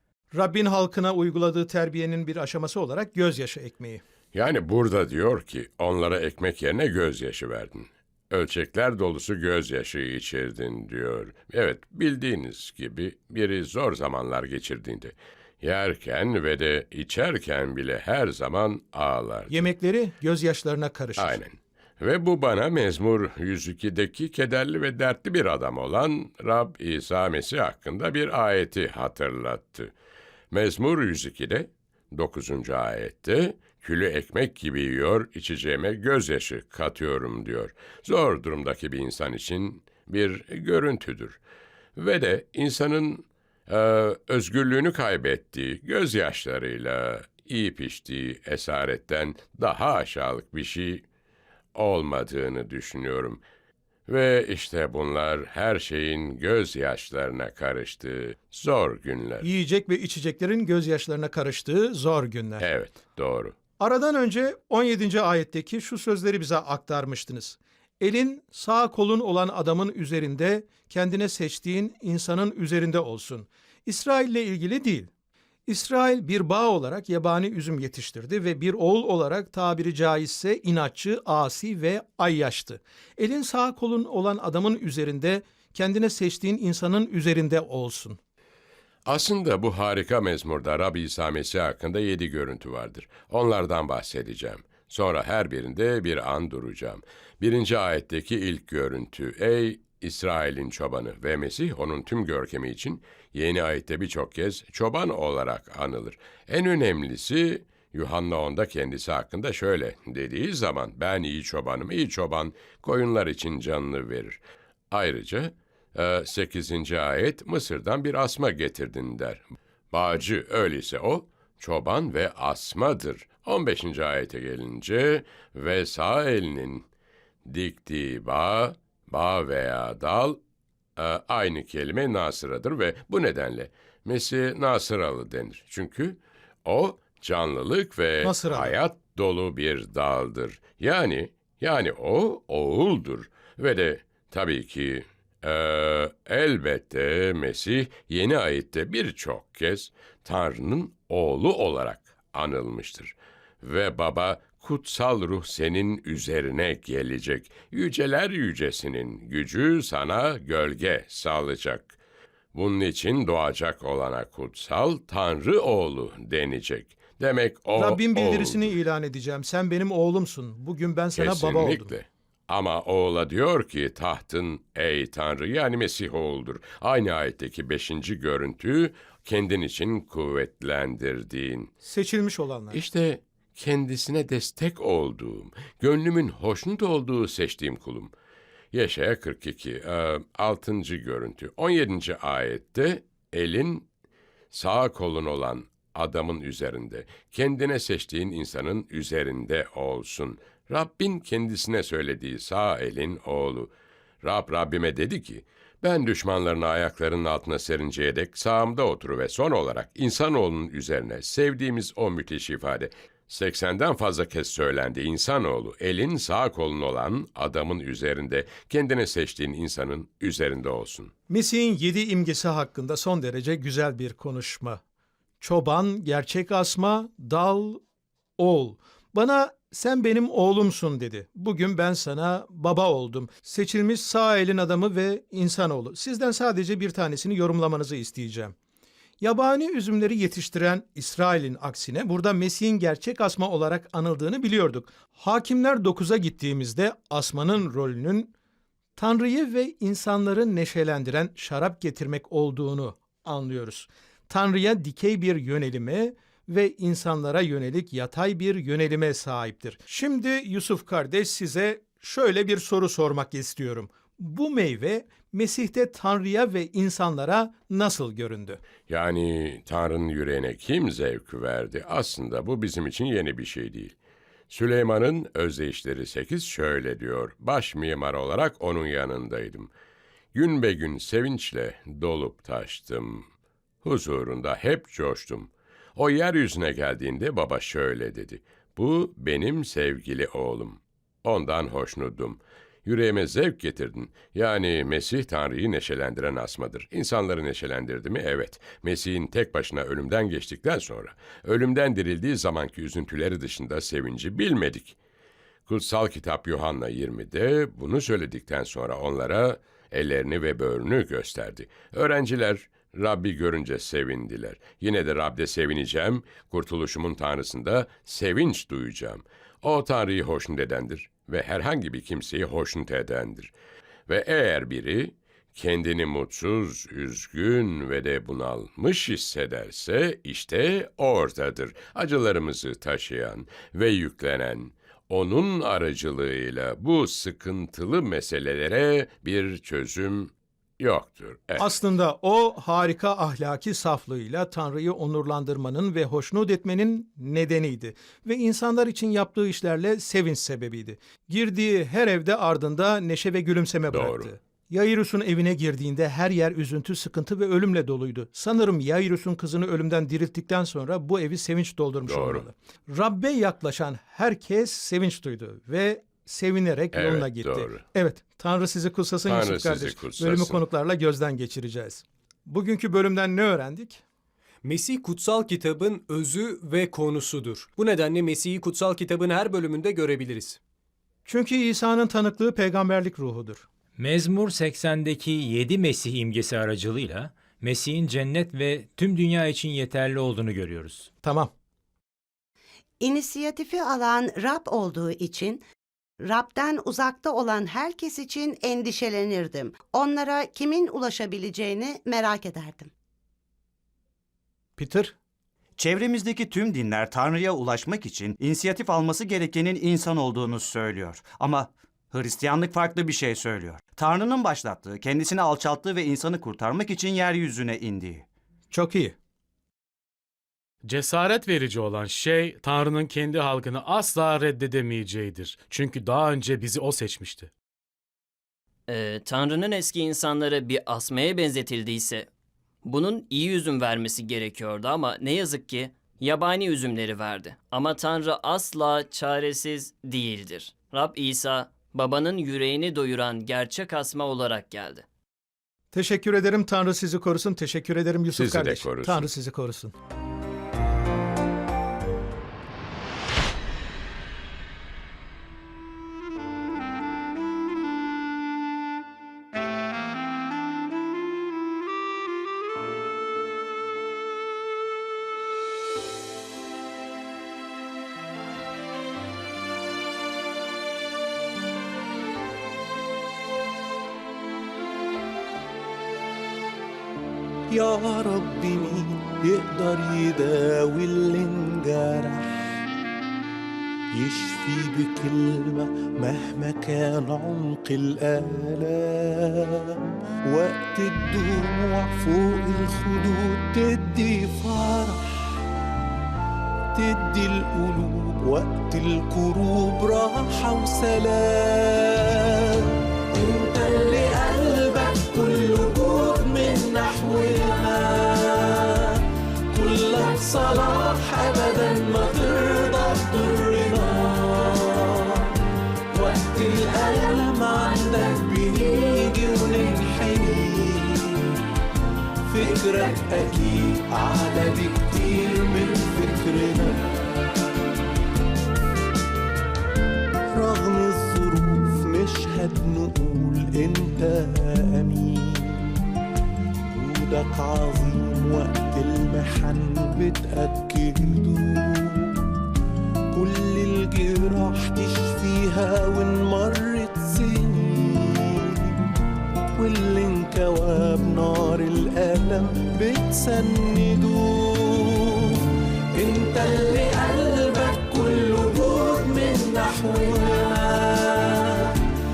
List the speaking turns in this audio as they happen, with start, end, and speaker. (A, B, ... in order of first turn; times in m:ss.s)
0:00.3-0:04.0 A
0:04.3-0:19.6 B
0:19.5-0:21.4 A
0:21.2-0:29.9 B
0:30.5-0:41.4 B
0:42.0-0:51.0 B
0:51.7-0:53.4 B
0:54.1-0:59.5 B
0:59.4-1:02.6 A
1:02.6-1:03.5 B
1:03.8-1:15.1 A
1:15.7-1:28.2 A
1:29.0-2:06.9 B
2:07.4-2:10.4 B
2:11.0-2:42.0 B
2:18.2-2:18.7 A
2:42.5-2:48.7 B
2:47.8-2:51.9 A
2:51.2-3:01.7 B
3:01.8-3:02.8 A
3:02.7-3:08.1 B
3:08.7-3:13.9 B
3:14.5-3:41.1 B
3:41.3-3:44.8 A
3:45.4-3:47.8 A
3:48.4-3:58.5 A
3:59.2-4:08.3 A
4:09.0-4:28.6 A
4:28.9-4:34.0 B
4:34.5-4:39.7 B
4:40.3-4:43.3 B
4:43.8-5:05.0 B
5:05.6-5:23.5 B
5:24.1-5:41.7 B
5:41.6-6:14.0 A
5:53.9-5:54.3 B
6:02.0-6:02.4 B
6:06.9-6:07.8 B
6:09.3-6:10.6 B
6:14.6-6:20.6 C
6:21.2-6:23.6 A
6:24.0-6:31.1 D
6:31.2-6:31.5 A
6:33.0-6:35.6 E
6:36.2-6:42.9 E
6:44.8-6:45.2 A
6:45.8-6:58.2 F
6:58.7-6:59.2 A
7:00.8-7:07.5 G
7:08.9-7:12.3 H
7:12.8-7:25.0 H
7:25.9-7:29.9 A
7:28.3-7:29.3 B
7:57.7-8:02.6 I
8:04.1-8:15.5 I
8:16.9-8:29.2 I
8:29.7-8:35.5 I
8:36.1-8:41.5 I
8:42.4-8:47.0 I
8:50.5-8:56.0 I
8:56.9-9:02.4 I
9:03.3-9:09.0 I
9:09.8-9:15.6 I
9:16.1-9:22.0 I